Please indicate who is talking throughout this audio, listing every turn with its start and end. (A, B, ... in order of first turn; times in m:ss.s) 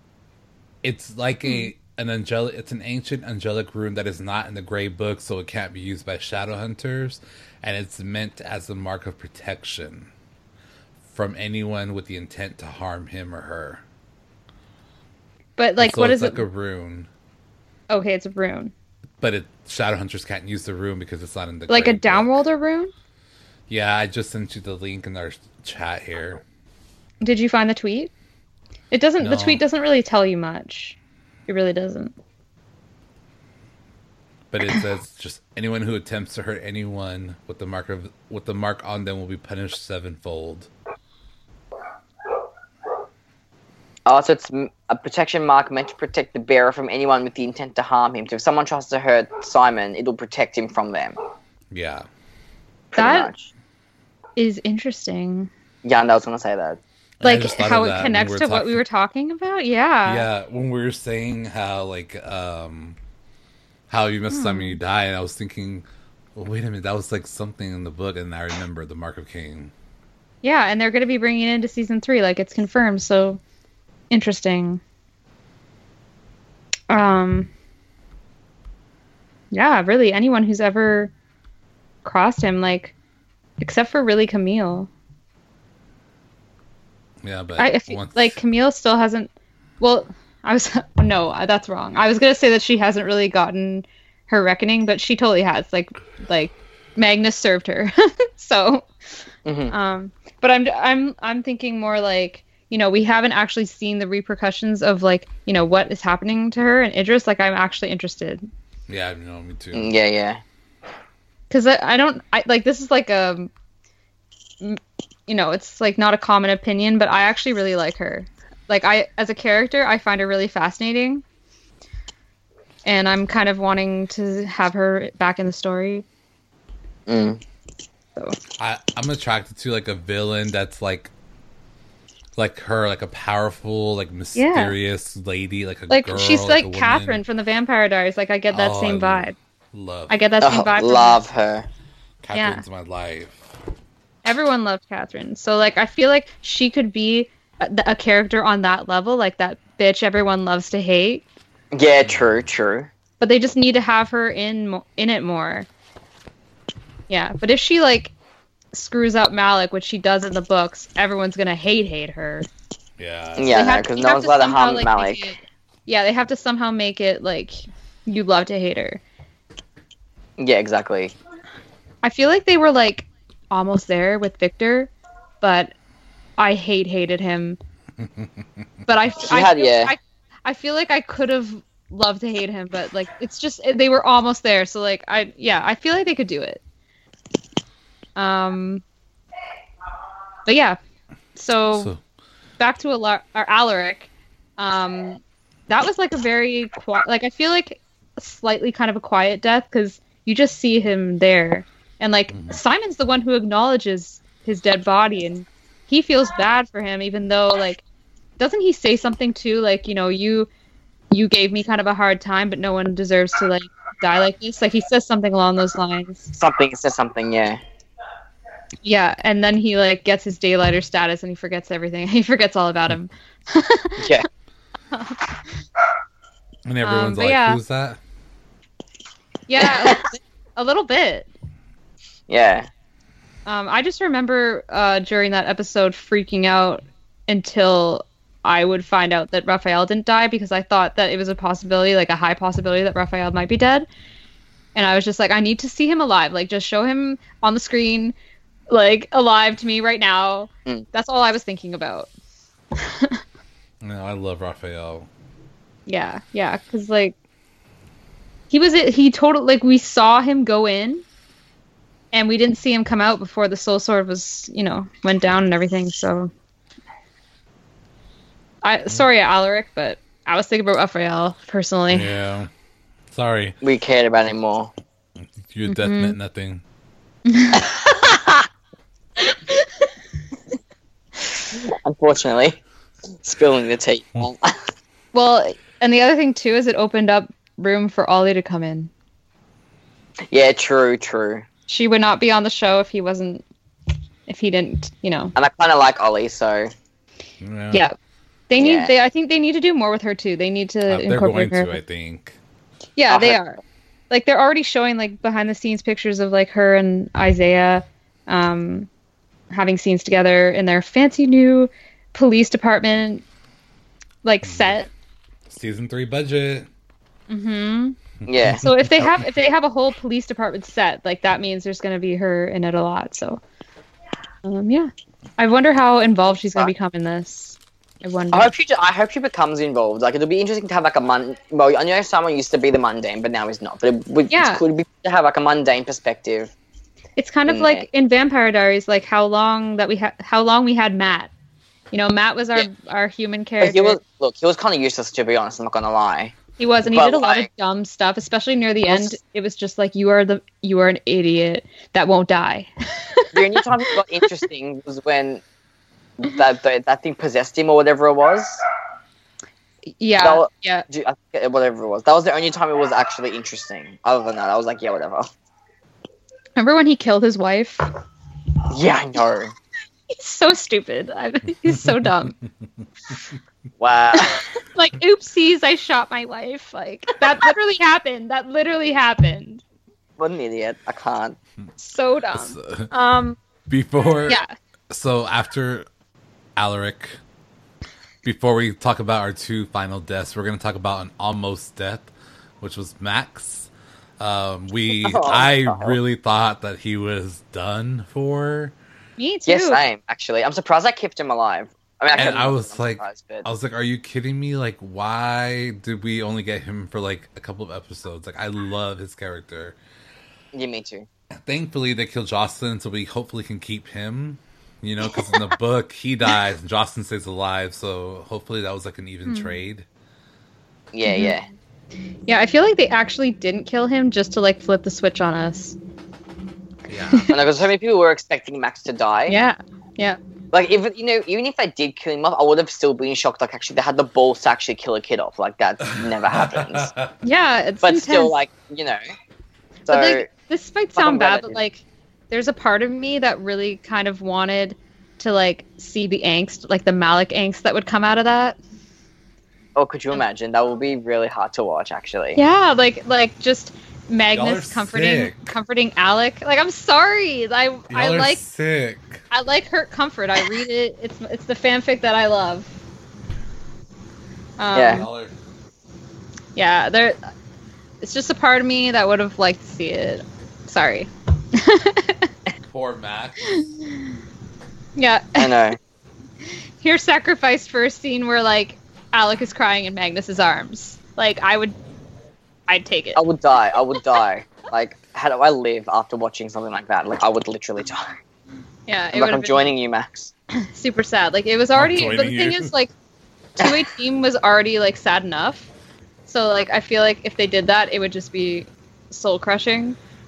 0:00.8-0:10.1 A
0:01.4-0:01.7 B
0:11.1-0:13.8 A
0:15.6-0:16.4 B
0:15.8-0:17.1 A
0:17.9-0:18.7 B
0:19.2-0:22.4 A
0:21.7-0:22.9 B
0:23.7-0:26.4 A
0:27.2-0:28.1 B
0:28.9-0:32.1 B
0:29.2-0:29.6 A
0:34.5-0:40.7 A
0:44.1-0:51.2 C
0:51.7-0:52.1 A
0:52.9-0:53.5 C
0:53.0-0:53.3 B
0:54.4-0:55.5 B
0:55.8-0:56.8 C
0:57.2-0:58.8 A
0:57.2-1:00.3 B
1:00.1-1:03.0 A
1:03.9-1:09.7 A
1:04.3-1:04.8 B
1:10.4-1:13.4 B
1:14.1-1:14.8 B
1:16.9-1:17.5 B
1:19.5-1:21.1 B
1:22.0-1:22.9 B
1:23.6-1:24.9 B
1:27.2-1:28.4 A
1:27.6-1:38.9 B
1:39.4-1:39.7 C
1:39.7-1:48.5 B
1:48.9-1:50.0 A
1:49.7-1:50.4 C
1:51.5-1:53.5 B
1:54.6-2:01.2 B
2:02.8-2:06.0 B
2:07.1-2:07.4 C
2:08.6-2:11.1 A
2:12.4-2:17.2 A
2:14.4-2:14.8 B
2:15.9-2:19.4 B
2:18.5-2:20.2 A
2:20.1-2:21.2 B
2:20.4-2:21.7 C
2:22.2-2:23.4 A
2:22.3-2:22.6 B
2:24.2-2:31.2 B
2:31.7-2:32.9 C
2:32.0-2:32.4 A
2:33.2-2:35.7 B
2:37.1-2:38.1 B
2:38.7-2:42.5 B
2:43.0-2:43.7 A
2:43.4-2:45.3 C
2:43.5-2:49.0 B
2:50.4-2:51.2 C
2:52.0-2:55.7 B
2:56.4-2:57.6 B
2:58.9-3:06.6 B
2:59.2-2:59.9 C
3:08.2-3:08.8 B
3:10.5-3:10.8 B
3:11.4-3:11.9 B
3:11.7-3:12.0 A
3:12.6-3:27.8 B
3:22.3-3:22.6 A
3:28.4-3:30.5 B
3:31.1-3:36.3 B
3:36.4-3:37.6 C
3:38.8-3:44.2 B
3:44.0-3:44.3 C
3:44.9-3:45.2 B
3:46.6-3:48.0 A
3:46.8-3:47.6 B
3:49.5-3:51.3 B
3:49.6-3:50.0 C
3:52.3-3:52.7 C
3:53.5-4:03.9 B
4:04.8-4:08.2 B
4:08.7-4:12.1 B
4:12.8-4:13.2 B
4:13.8-4:15.1 A
4:15.9-4:17.2 B
4:18.5-4:21.0 B
4:22.1-4:26.3 B
4:28.6-4:32.1 B
4:31.9-4:32.5 A
4:33.1-4:33.6 A
4:33.6-4:34.7 C
4:35.5-4:36.6 A
4:35.7-4:36.2 B
4:37.3-4:37.7 B
4:37.6-4:38.3 C
4:39.2-4:39.7 B
4:41.5-4:42.6 C
4:43.2-4:44.6 C
4:45.1-4:48.9 B
4:50.3-4:51.5 C
4:51.7-4:53.4 B
4:54.3-4:55.3 B
4:55.4-4:56.7 C
4:57.4-4:57.8 A
4:58.5-5:01.8 B
4:58.6-4:58.9 C
5:00.9-5:02.4 A
5:03.0-5:08.9 B
5:03.1-5:03.4 C
5:09.5-5:13.2 B
5:14.2-5:14.9 B
5:14.4-5:14.8 A
5:15.5-5:16.7 A
5:17.3-5:18.0 B
5:18.3-5:18.7 C
5:18.3-5:19.2 A
5:18.6-5:23.4 B
5:24.4-5:28.5 B
5:28.3-5:36.5 C
5:34.3-5:34.6 B
5:37.2-5:41.3 B
5:37.5-5:37.8 C
5:41.9-5:44.0 B
5:43.6-5:46.4 C
5:46.6-5:54.3 B
5:46.9-5:47.5 C
5:48.9-5:49.2 C
5:53.3-5:55.4 C
5:56.2-5:58.5 C
6:00.0-6:00.9 B
6:00.2-6:05.3 C
6:06.6-6:07.9 B
6:08.7-6:09.6 C
6:10.1-6:12.4 B
6:13.8-6:14.4 C
6:14.1-6:19.6 B
6:20.2-6:21.4 C
6:21.8-6:23.4 B
6:22.4-6:22.9 A
6:23.7-6:25.9 A
6:24.3-6:24.5 B
6:26.6-6:27.2 A
6:28.2-6:32.1 A
6:32.6-6:38.8 A
6:34.9-6:36.0 C
6:39.2-6:39.8 B
6:39.5-6:43.5 C
6:42.2-6:49.8 A
6:50.5-6:51.1 C
6:51.4-6:59.8 A
6:59.3-6:59.6 B
7:00.9-7:01.5 C
7:01.1-7:01.4 B
7:02.3-7:05.8 B
7:06.9-7:07.3 A
7:07.3-7:09.4 C
7:09.3-7:10.2 B
7:10.5-7:16.9 C
7:15.9-7:17.1 A
7:17.2-7:18.4 B
7:17.8-7:19.0 C
7:19.9-7:20.3 C
7:19.9-7:28.6 B
7:21.0-7:21.6 C
7:29.8-7:32.4 C
7:32.4-7:38.4 B
7:34.3-7:35.4 A
7:37.9-7:39.2 A
7:39.3-7:42.7 B
7:44.6-7:45.1 B
7:44.7-7:45.0 C
7:44.9-7:45.3 A
7:46.6-7:47.2 B
7:48.0-7:52.3 B
7:52.7-7:53.5 A
7:55.0-7:55.7 B
7:55.4-7:55.8 C
7:56.8-8:01.8 B
8:02.7-8:03.2 B
8:03.2-8:08.1 C
8:08.9-8:09.7 B
8:09.1-8:10.3 C
8:10.5-8:12.9 B
8:11.8-8:12.7 A
8:13.6-8:15.7 B
8:16.3-8:20.0 B